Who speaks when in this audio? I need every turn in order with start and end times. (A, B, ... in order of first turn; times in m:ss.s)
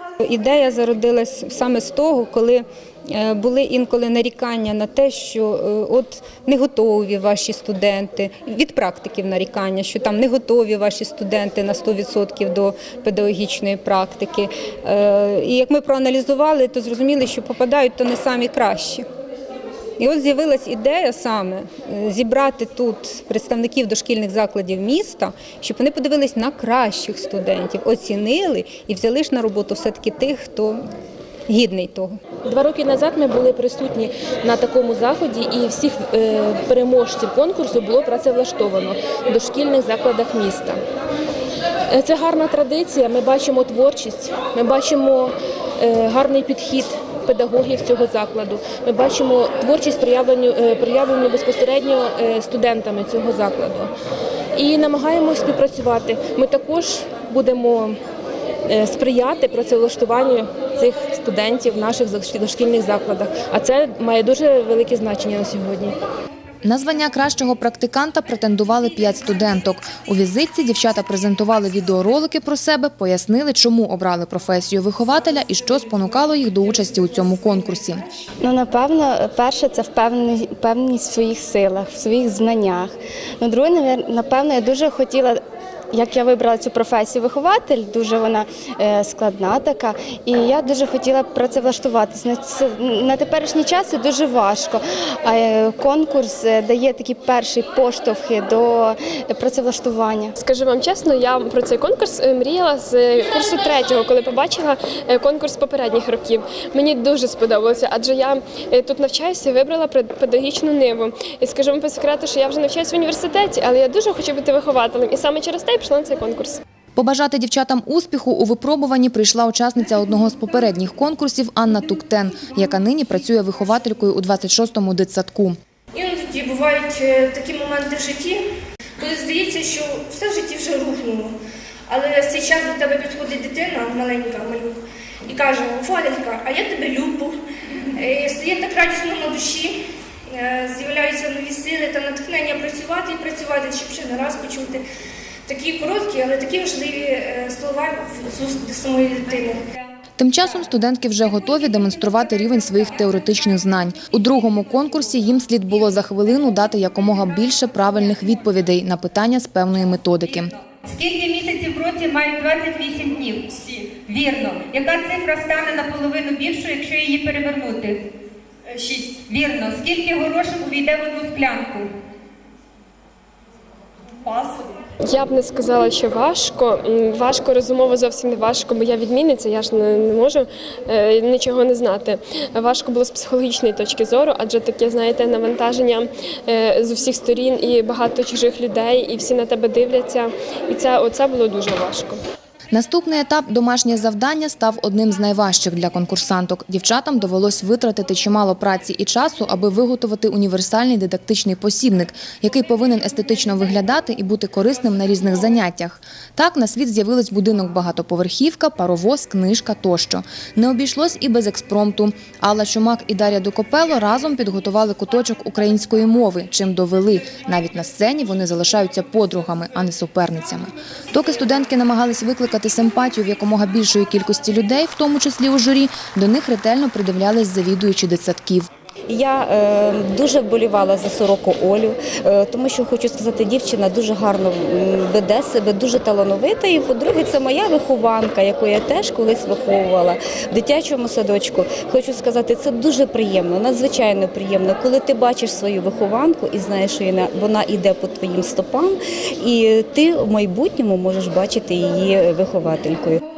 0:00.2-0:19.0 A
0:20.0-0:30.8 A
0:31.5-0:32.2 A
0:32.4-0:40.8 B
0:41.9-0:53.9 B
0:54.6-0:58.0 B
0:58.7-1:06.0 B
1:06.6-1:18.0 C
1:18.4-1:25.4 D
1:25.9-1:40.3 D
1:40.4-1:56.6 E
1:57.0-2:05.6 C
2:05.9-2:08.4 F
2:09.0-2:11.3 F
2:11.9-2:17.4 F
2:18.0-2:19.8 F
2:20.3-2:24.8 F
2:25.5-2:29.6 F
2:30.2-2:40.5 C
2:40.9-2:48.1 G
2:48.9-2:51.9 G
2:55.1-3:12.2 E
3:12.7-3:48.7 C
3:49.1-4:13.2 H